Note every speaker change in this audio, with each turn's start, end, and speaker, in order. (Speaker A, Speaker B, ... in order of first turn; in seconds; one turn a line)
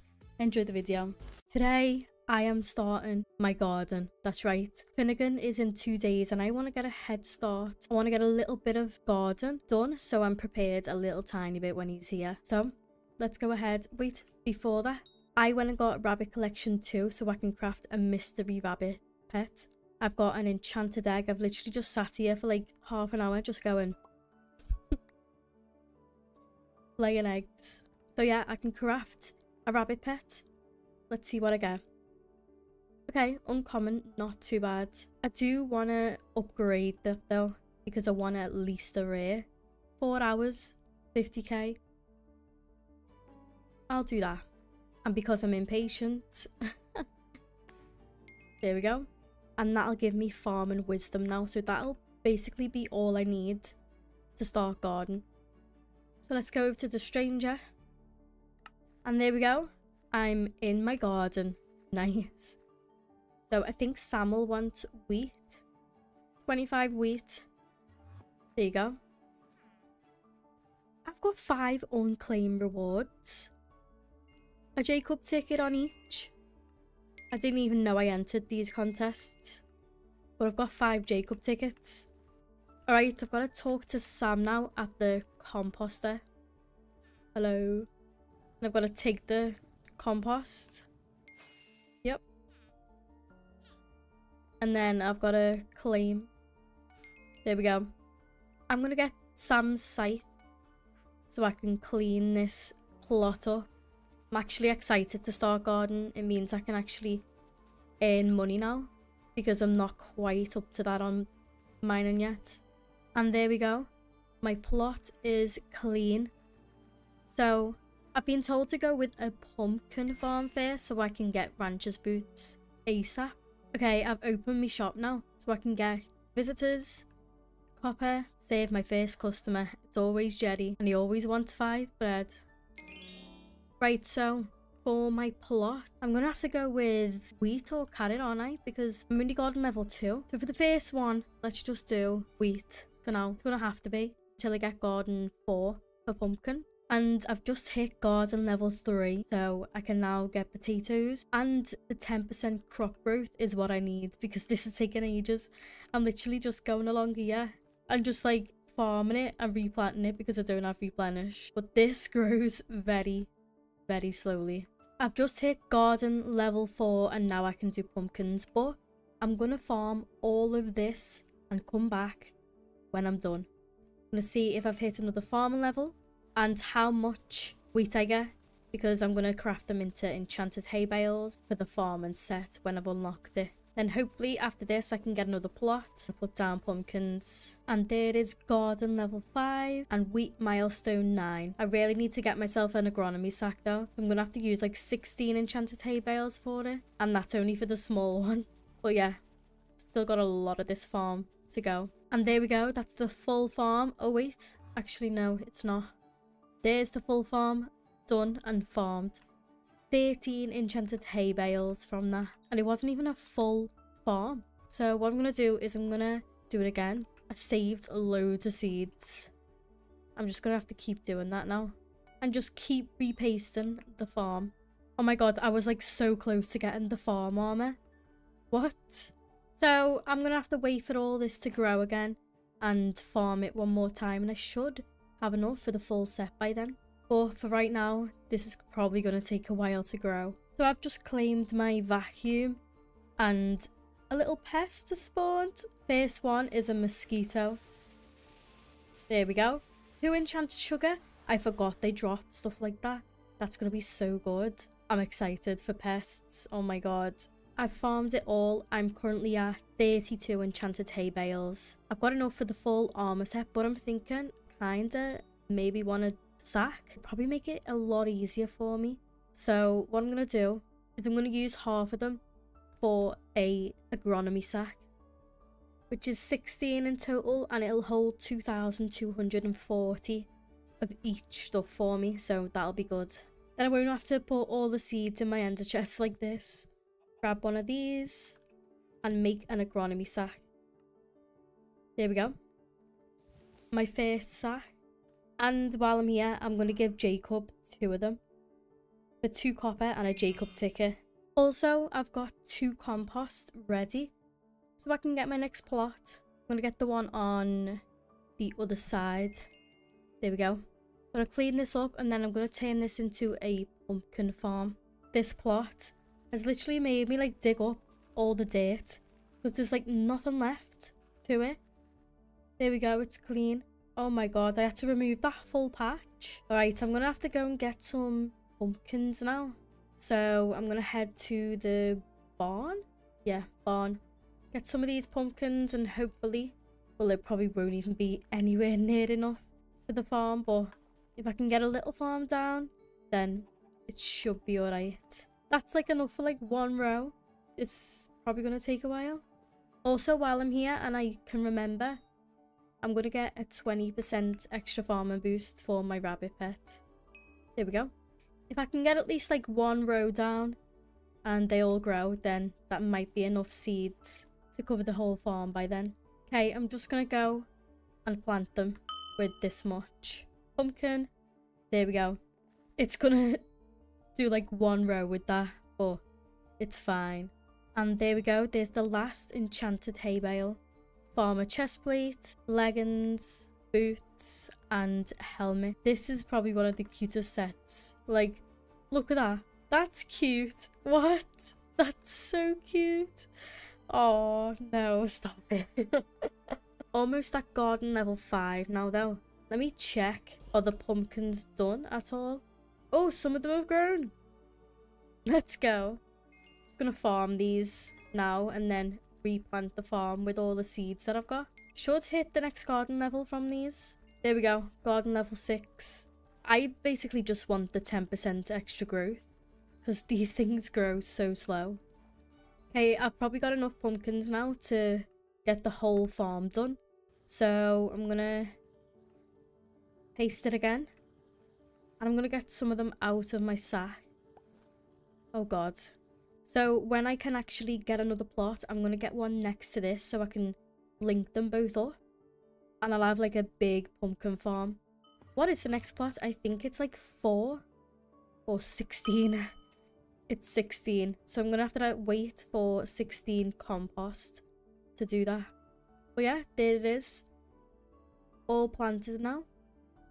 Speaker A: 0.4-24.0
Speaker A: 27.0-30.5
Speaker A: 31.1-31.8
Speaker A: 33.1-39.5
Speaker A: 40.0-41.8
Speaker A: 43.9-44.5
Speaker A: 45.0-47.0
Speaker A: 48.6-53.8
Speaker A: 54.4-55.3
Speaker A: 56.2-57.6
Speaker A: 59.0-62.6
Speaker A: 63.5-65.6
Speaker A: 66.4-67.5
Speaker A: 68.6-69.0
Speaker A: 71.0-73.5
Speaker A: 74.8-76.3
Speaker A: 77.3-79.6
Speaker A: 80.4-82.1
Speaker A: 82.9-86.2
Speaker A: 87.3-87.9
Speaker A: 88.6-90.9
Speaker A: 94.6-96.3
Speaker A: 97.5-97.9
Speaker A: 98.7-100.3
Speaker A: 101.3-103.7
Speaker A: 104.3-107.3
Speaker A: 108.0-111.3
Speaker A: 111.8-112.6
Speaker A: 113.2-113.9
Speaker A: 114.4-116.3
Speaker A: 117.3-127.1
Speaker A: 127.8-132.4
Speaker A: 133.8-163.3
Speaker A: 163.9-172.3
Speaker A: 172.9-173.5
Speaker A: 174.1-199.2
Speaker A: 199.8-205.9
Speaker A: 206.6-209.2
Speaker A: 209.9-219.3
Speaker A: 220.2-227.8
Speaker A: 228.5-242.6
Speaker A: 243.2-247.6
Speaker A: 249.1-272.2
Speaker A: 272.8-274.8
Speaker A: 275.9-280.3
Speaker A: 280.8-286.7
Speaker A: 287.2-288.4
Speaker A: 289.0-290.4
Speaker A: 292.0-292.4
Speaker A: 293.7-294.8
Speaker A: 295.4-298.2
Speaker A: 299.2-304.1
Speaker A: 304.8-307.8
Speaker A: 308.4-309.5
Speaker A: 310.2-321.6
Speaker A: 322.6-334.0
Speaker A: 334.5-349.2
Speaker A: 349.8-352.0
Speaker A: 352.8-356.8
Speaker A: 357.6-357.9
Speaker A: 358.5-360.6
Speaker A: 361.2-367.5
Speaker A: 368.1-371.1
Speaker A: 371.7-372.2
Speaker A: 372.8-373.4
Speaker A: 374.1-376.0
Speaker A: 376.6-380.6
Speaker A: 381.1-393.3
Speaker A: 393.9-404.1
Speaker A: 405.3-406.0
Speaker A: 406.7-419.3
Speaker A: 419.8-421.8
Speaker A: 422.7-428.6
Speaker A: 430.2-430.9
Speaker A: 432.0-434.1
Speaker A: 435.3-442.0
Speaker A: 442.8-444.8
Speaker A: 445.4-447.6
Speaker A: 448.5-449.5
Speaker A: 450.3-454.4
Speaker A: 454.9-455.5
Speaker A: 456.2-457.3
Speaker A: 458.5-459.5